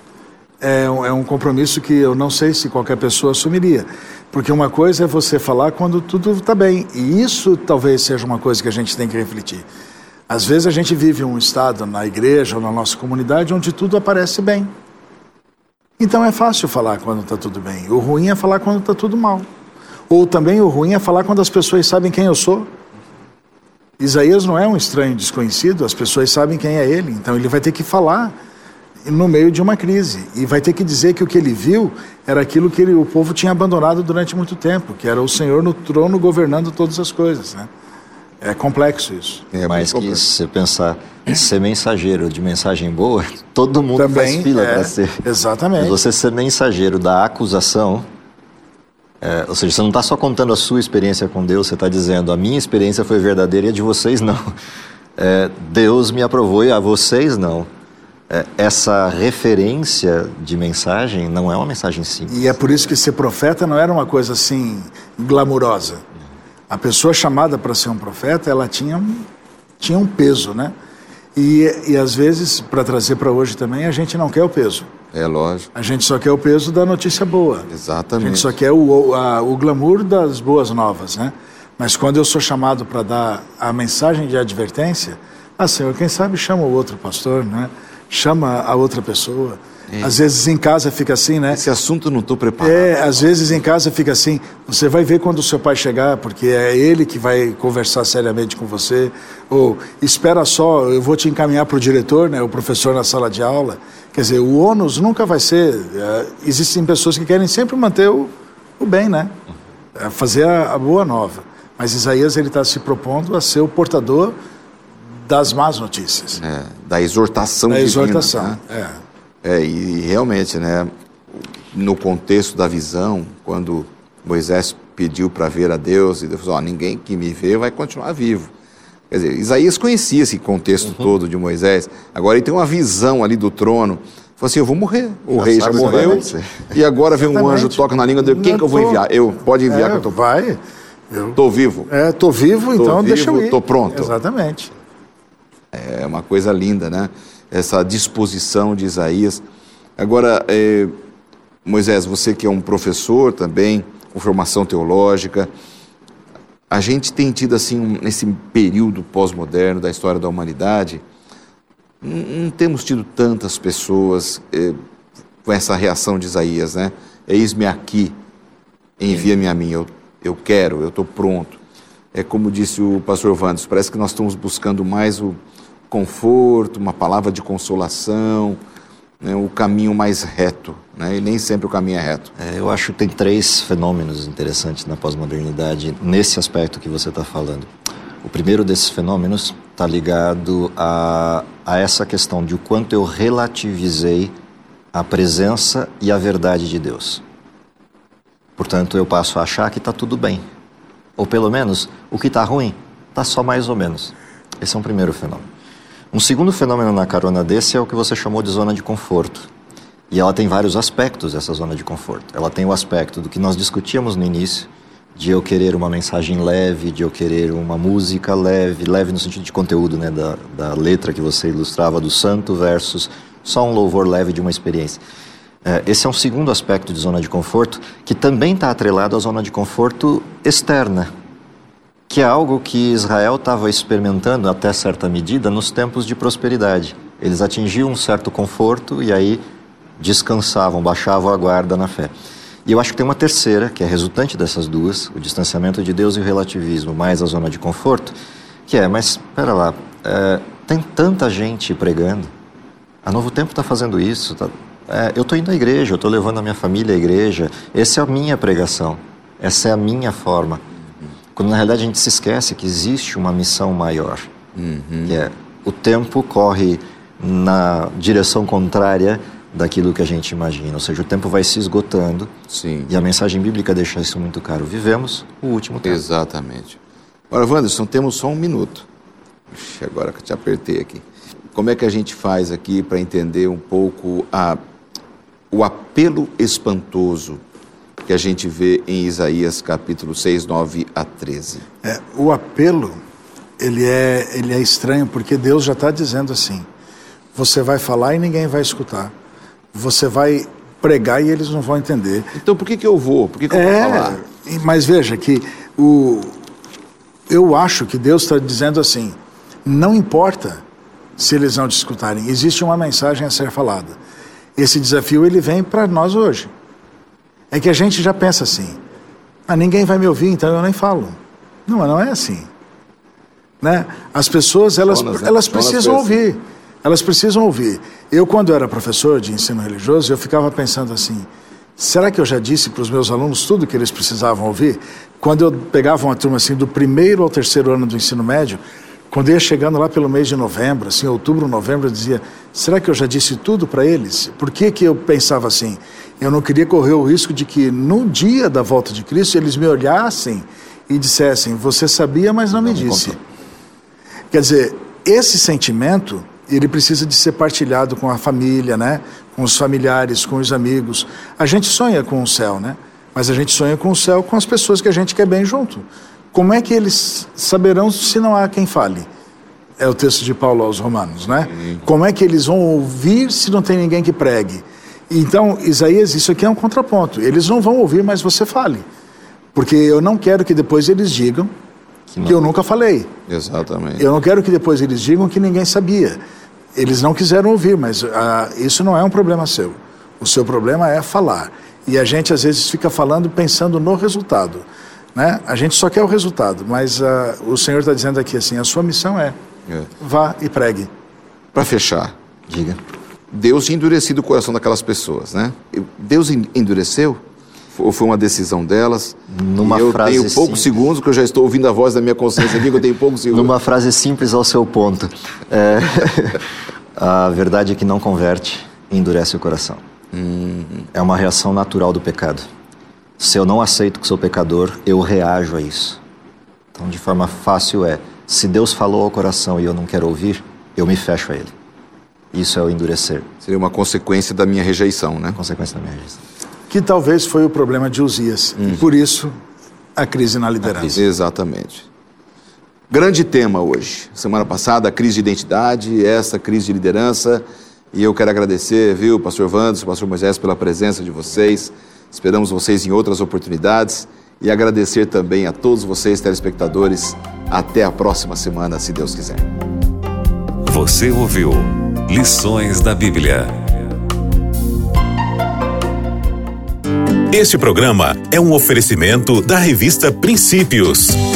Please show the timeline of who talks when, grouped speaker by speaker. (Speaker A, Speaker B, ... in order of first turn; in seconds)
Speaker A: 0.6-9.7, 10.3-14.7, 16.0-19.4, 20.1-22.7, 24.0-28.3, 29.1-37.7, 38.4-39.5, 44.0-46.0, 62.3-66.0, 66.7-69.3, 69.8-70.7, 71.3-74.9, 75.7-77.7, 78.2-91.6, 92.6-109.3, 110.0-114.3, 115.2-116.4, 117.7-119.0, 135.8-136.2, 137.3-139.0, 139.7-140.6, 141.1-141.4, 141.9-144.7, 291.8-293.0, 293.6-296.6, 297.3-299.1, 299.7-302.3, 303.5-306.4, 307.3-310.6, 311.2-314.0, 314.6-316.5, 317.5-318.8, 319.5-322.5, 323.6-353.2, 354.3-369.1, 369.8-378.9, 379.5-381.5, 382.2-383.1, 384.0-386.2, 386.7-399.3, 400.0-400.9, 436.7-439.3, 439.9-441.0
Speaker B: 39.5-40.2, 75.1-75.7, 77.7-78.5, 91.5-92.9, 116.4-118.6, 119.4-128.5, 129.1-140.1, 141.3-141.9, 142.8-144.1, 145.7-149.4, 150.0-150.9, 151.6-155.5, 156.7-161.0, 162.0-164.8, 165.4-168.2, 169.0-171.6, 172.1-175.4, 175.9-178.6, 179.2-182.3, 264.6-265.2, 272.5-272.9, 275.8-276.8, 277.3-278.9, 279.5-281.0, 281.5-284.6, 285.5-287.4, 288.1-291.6, 302.4-304.2, 324.9-326.1, 371.5-371.8, 383.3-384.0, 401.5-402.1, 403.3-407.2, 407.7-413.5, 420.1-420.9, 433.4-435.4, 440.8-441.9, 442.9-459.4
Speaker C: 39.7-45.2, 45.8-48.0, 49.2-54.5, 55.2-57.7, 58.3-62.6, 135.3-136.6, 182.4-187.7, 188.2-194.3, 194.9-197.2, 198.6-200.4, 201.2-205.5, 206.1-209.5, 210.1-225.0, 225.6-231.1, 232.1-239.4, 240.0-242.1, 242.7-248.1, 248.7-252.3, 253.0-260.6, 261.3-264.3, 265.1-272.3, 272.9-276.0, 352.6-353.2, 382.1-382.4, 402.5-402.8, 409.3-410.7, 413.3-419.8, 420.9-422.4, 423.2-426.0, 426.7-431.5, 432.3-433.3, 435.3-436.2
Speaker D: 460.6-463.7
Speaker E: 467.3-471.2